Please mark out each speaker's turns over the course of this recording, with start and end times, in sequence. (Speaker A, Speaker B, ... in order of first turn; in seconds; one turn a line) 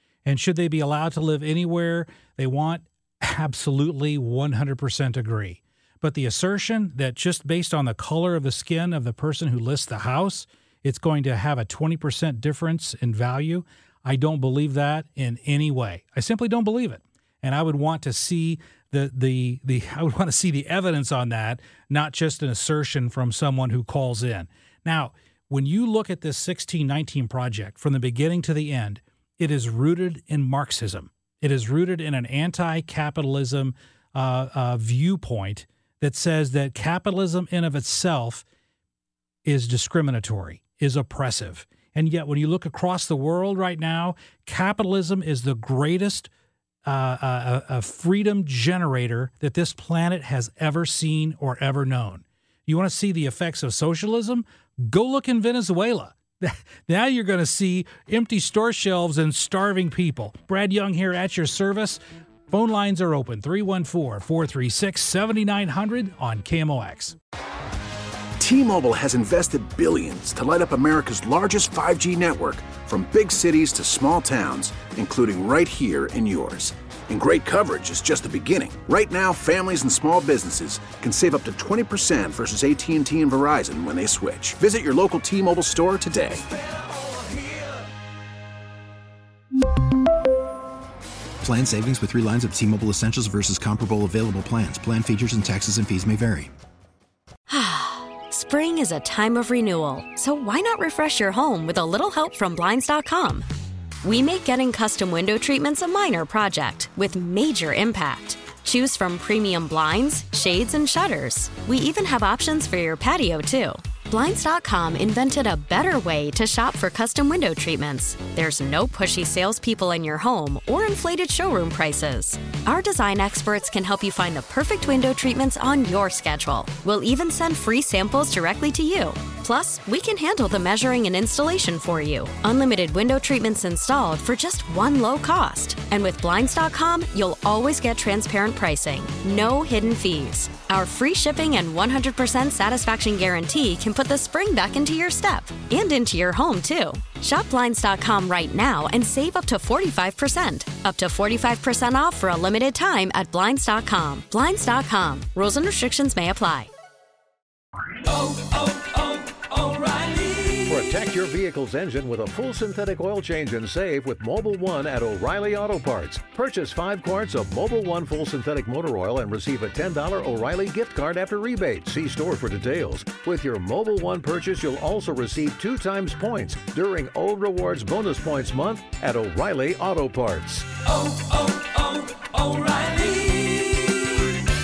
Speaker A: 0.2-38.4
Speaker A: 39.5-46.3
Speaker A: 46.9-67.2
Speaker B: 68.4-86.4
Speaker C: 87.0-87.6
Speaker D: 91.4-96.5
Speaker E: 97.5-103.5
Speaker E: 104.0-156.7
Speaker C: 158.1-161.1
Speaker F: 160.7-180.7
Speaker C: 180.8-184.3